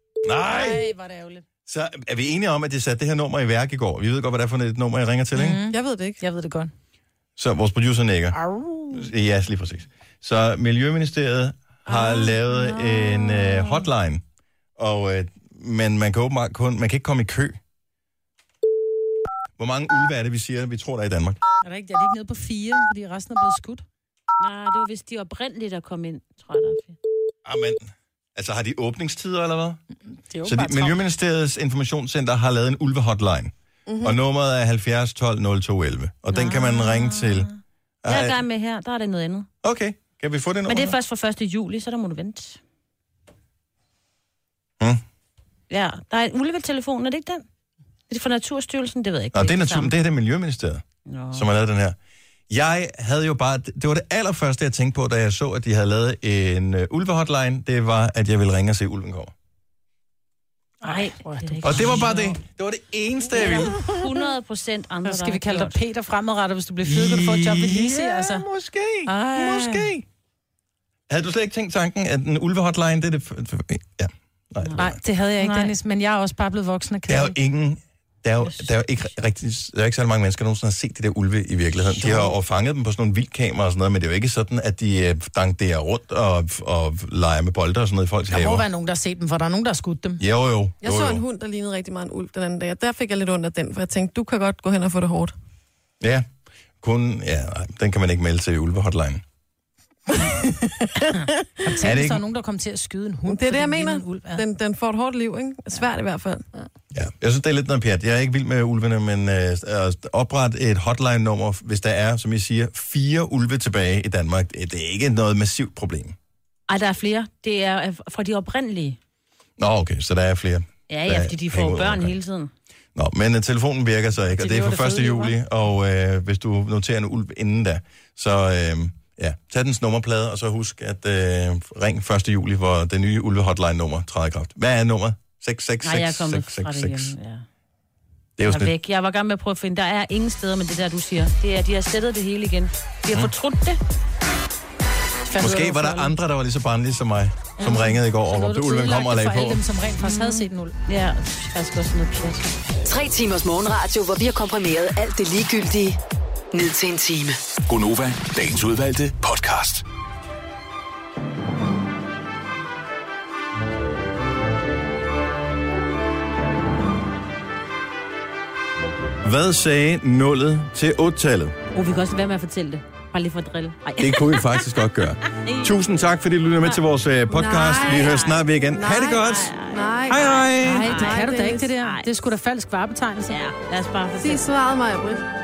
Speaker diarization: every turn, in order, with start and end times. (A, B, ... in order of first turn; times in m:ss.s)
0:00.2-0:00.8 A
0:00.5-0:01.4 B
0:01.7-0:05.6 A
0:05.3-0:06.7 B
0:05.6-0:06.2 C
0:07.4-0:08.4 A
0:08.3-0:09.1 B
0:08.9-0:14.2 A
0:11.9-0:13.8 D
0:14.8-0:17.6 A
0:19.6-0:21.4 A
0:21.6-0:23.8 B
0:24.4-0:27.0 D
0:27.4-0:29.8 A
0:30.3-0:31.0 B
0:30.4-0:33.5 A
0:33.9-0:34.2 C
0:34.0-0:37.5 A
0:36.3-0:39.5 D
0:38.0-0:38.4 A
0:39.6-0:41.0 A
0:40.7-0:42.6 D
0:45.7-0:47.4 D
0:48.1-0:49.9 D
0:49.3-0:52.0 A
0:51.1-0:51.4 D
0:52.5-0:59.3 A
1:00.8-1:02.3 B
1:00.8-1:02.4 D
1:01.6-1:03.7 A
1:03.3-1:05.8 D
1:05.0-1:08.4 B
1:06.8-1:10.0 A
1:09.1-1:09.9 B
1:11.1-1:15.0 A
1:14.8-1:17.4 B
1:15.4-1:15.7 D
1:17.1-1:28.7 A
1:21.9-1:22.3 B
1:28.3-1:30.2 B
1:30.2-1:31.2 A
1:30.8-1:35.3 C
1:36.0-1:36.3 A
1:36.8-1:39.2 A
1:41.6-1:44.4 B
1:41.8-1:42.2 A
1:43.3-1:46.4 C
1:46.9-1:56.2 A
1:56.7-1:59.0 D
1:59.6-2:02.1 A
2:00.9-2:02.5 D
2:02.9-2:17.1 A
2:04.3-2:05.4 B
2:15.8-2:17.4 D
2:18.4-2:18.7 A
2:18.4-2:23.8 D
2:25.3-2:26.1 B
2:25.4-2:29.6 A
2:27.6-2:30.7 B
2:30.0-2:32.5 D
2:32.8-2:36.0 E
2:36.5-2:37.4 E
2:37.7-2:39.8 F
2:49.2-2:51.5 A
2:51.7-2:54.6 D
2:54.0-2:59.5 A
2:55.3-2:55.7 D
2:57.3-3:01.7 C
2:57.8-2:58.4 D
2:59.1-3:02.0 D
3:00.1-3:01.0 A
3:00.6-3:03.4 B
3:03.3-3:04.4 D
3:04.2-3:05.2 C